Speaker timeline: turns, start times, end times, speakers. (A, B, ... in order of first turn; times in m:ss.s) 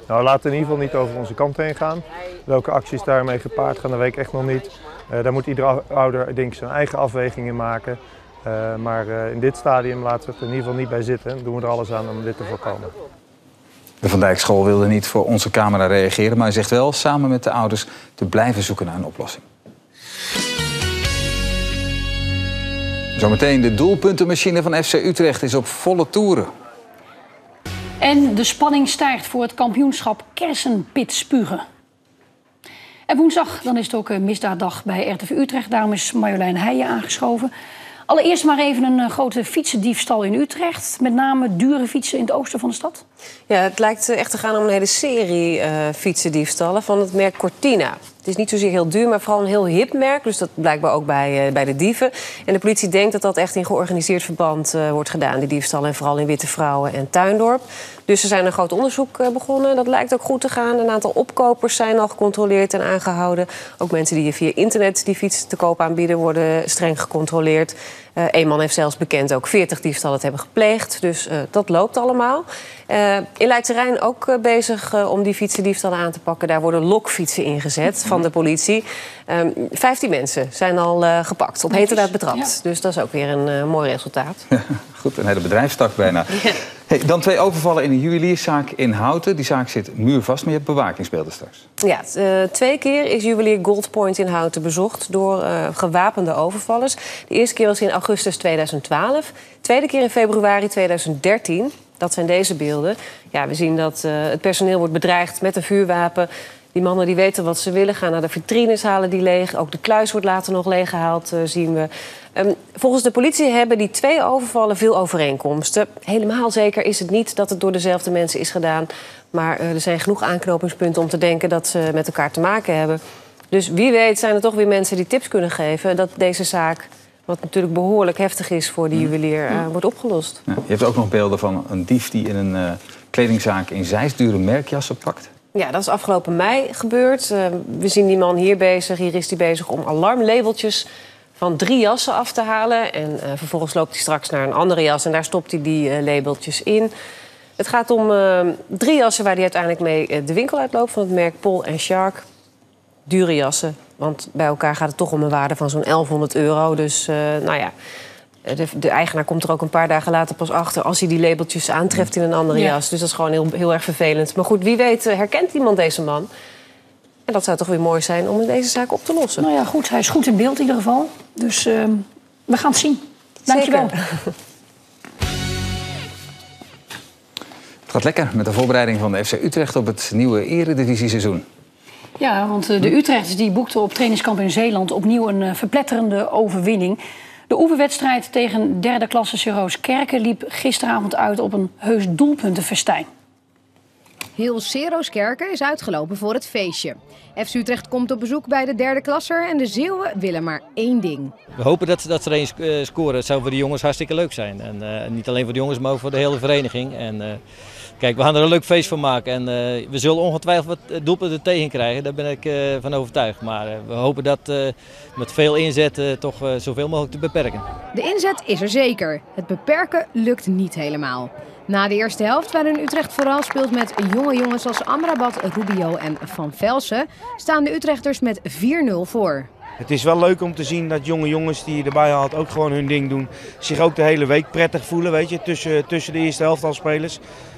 0:00.1-0:12.9 A
0:14.0-0:19.4 B
0:23.2-0:26.5 B
0:28.0-0:31.6 C
0:33.1-0:37.5 C
0:38.1-0:43.0 C
0:43.5-1:24.4 D
1:21.7-1:22.5 C
1:24.5-1:31.7 B
1:31.8-2:03.0 D
2:03.5-2:10.4 D
2:10.5-2:15.3 B
2:15.5-2:26.9 D
2:27.6-2:32.2 D
2:33.1-2:37.7 D
2:38.4-2:46.3 D
2:42.5-2:42.8 C
2:47.3-2:49.5 D
2:49.4-2:54.0 C
2:53.5-2:54.0 D
2:57.9-3:01.4 B
3:02.2-3:13.1 C
3:14.4-3:21.3 E
3:21.5-3:27.4 F
3:28.0-3:37.7 F
3:37.9-3:49.5 E
3:49.8-3:57.2 G